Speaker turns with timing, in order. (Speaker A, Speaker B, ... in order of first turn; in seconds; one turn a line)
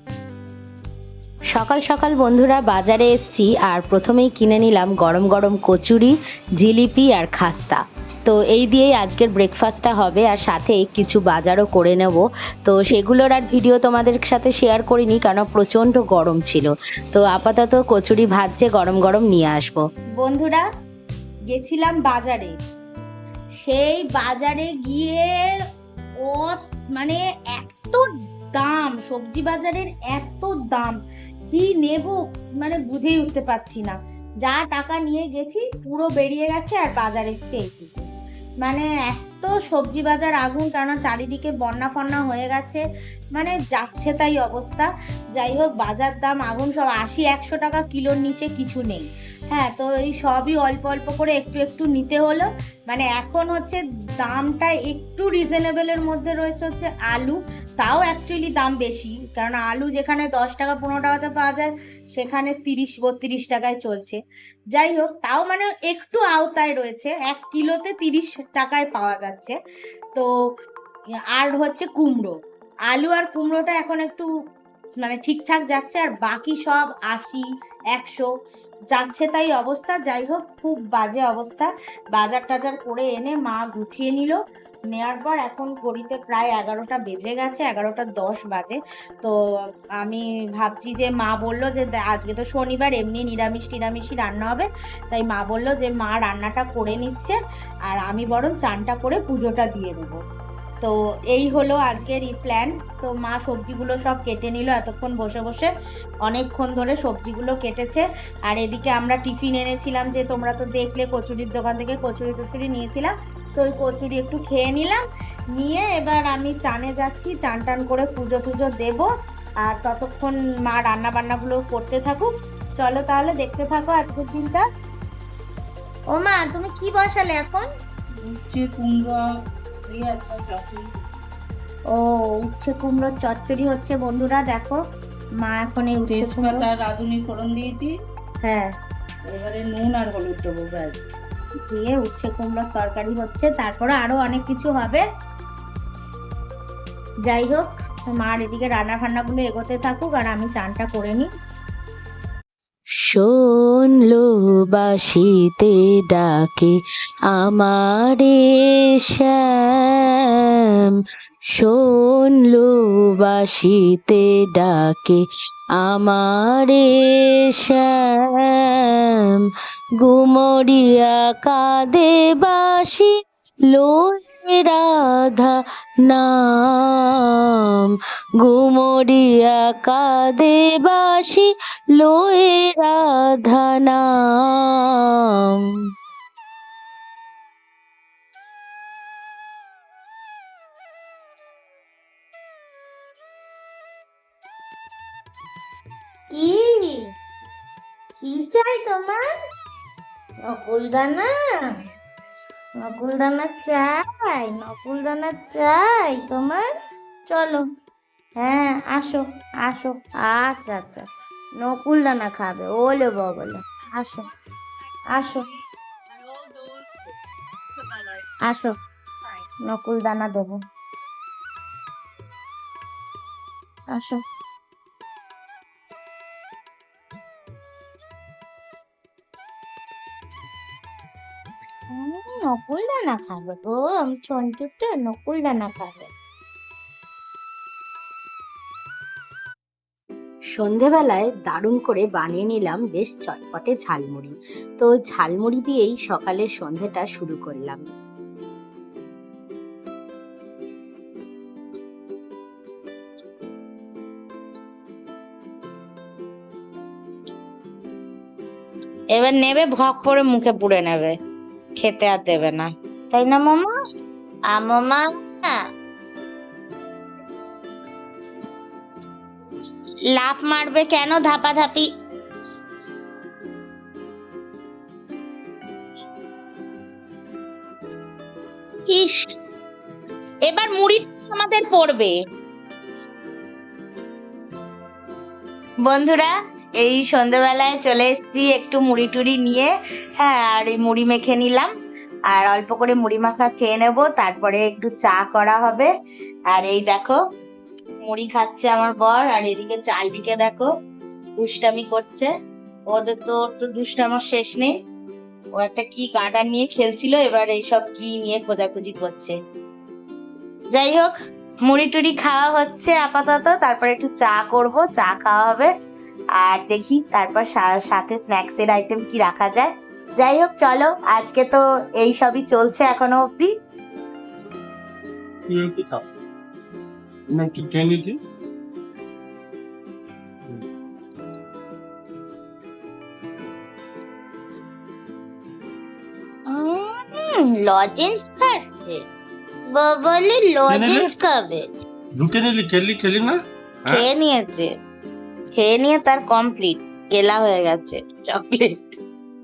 Speaker A: 1.5-19.9
Speaker B: 20.2-20.7
Speaker B: 21.5-22.5
Speaker B: 23.6-25.3
Speaker B: 26.2-31.0
Speaker B: 31.5-38.1
Speaker B: 38.6-42.8
Speaker B: 43.4-64.2
Speaker B: 64.7-69.6
Speaker B: 71.4-72.3
Speaker B: 72.9-74.3
Speaker B: 75.0-78.3
Speaker B: 78.9-84.4
Speaker B: 84.9-89.3
Speaker B: 90.0-97.4
Speaker B: 97.9-100.2
Speaker B: 100.8-105.7
Speaker B: 106.3-115.0
Speaker B: 115.6-119.1
Speaker B: 119.6-124.6
Speaker B: 126.1-127.7
Speaker C: 128.3-129.2
Speaker C: 129.9-131.0
Speaker B: 131.9-134.8
Speaker B: 135.4-136.7
Speaker C: 136.1-137.9
Speaker B: 138.4-138.7
Speaker C: 139.3-141.0
Speaker B: 141.7-145.0
Speaker B: 147.3-151.3
Speaker A: 153.1-156.8
Speaker A: 157.3-158.4
Speaker A: 159.0-160.9
Speaker A: 161.5-165.2
Speaker A: 165.8-169.4
Speaker A: 170.0-173.1
Speaker A: 173.7-175.5
Speaker A: 176.1-185.6
Speaker B: 196.3-197.1
Speaker B: 198.2-199.2
Speaker B: 200.5-201.3
Speaker B: 202.8-206.7
Speaker B: 207.3-207.7
Speaker B: 208.4-211.1
Speaker B: 211.6-214.3
Speaker B: 215.1-215.5
Speaker B: 216.3-217.0
Speaker B: 218.4-218.8
Speaker B: 219.6-220.6
Speaker B: 223.9-224.2
Speaker B: 231.9-236.1
Speaker A: 240.5-247.9
Speaker B: 259.1-261.1
Speaker B: 261.8-263.7
Speaker B: 264.5-265.0
Speaker B: 270.2-271.9
Speaker B: 278.9-279.3
Speaker B: 280.4-282.1
Speaker B: 285.9-291.7
Speaker B: 292.3-295.9
Speaker B: 296.5-297.2
Speaker B: 298.1-300.7
Speaker B: 301.4-302.3
Speaker B: 302.9-304.7
Speaker B: 305.6-309.4
Speaker B: 310.7-311.1
Speaker B: 311.7-315.7
Speaker B: 316.4-323.5
Speaker D: 325.5-326.1
Speaker D: 327.3-328.2
Speaker B: 336.5-339.0
Speaker B: 339.7-341.6
Speaker D: 340.7-341.1
Speaker D: 342.2-343.4
Speaker B: 343.9-344.7
Speaker B: 345.6-349.0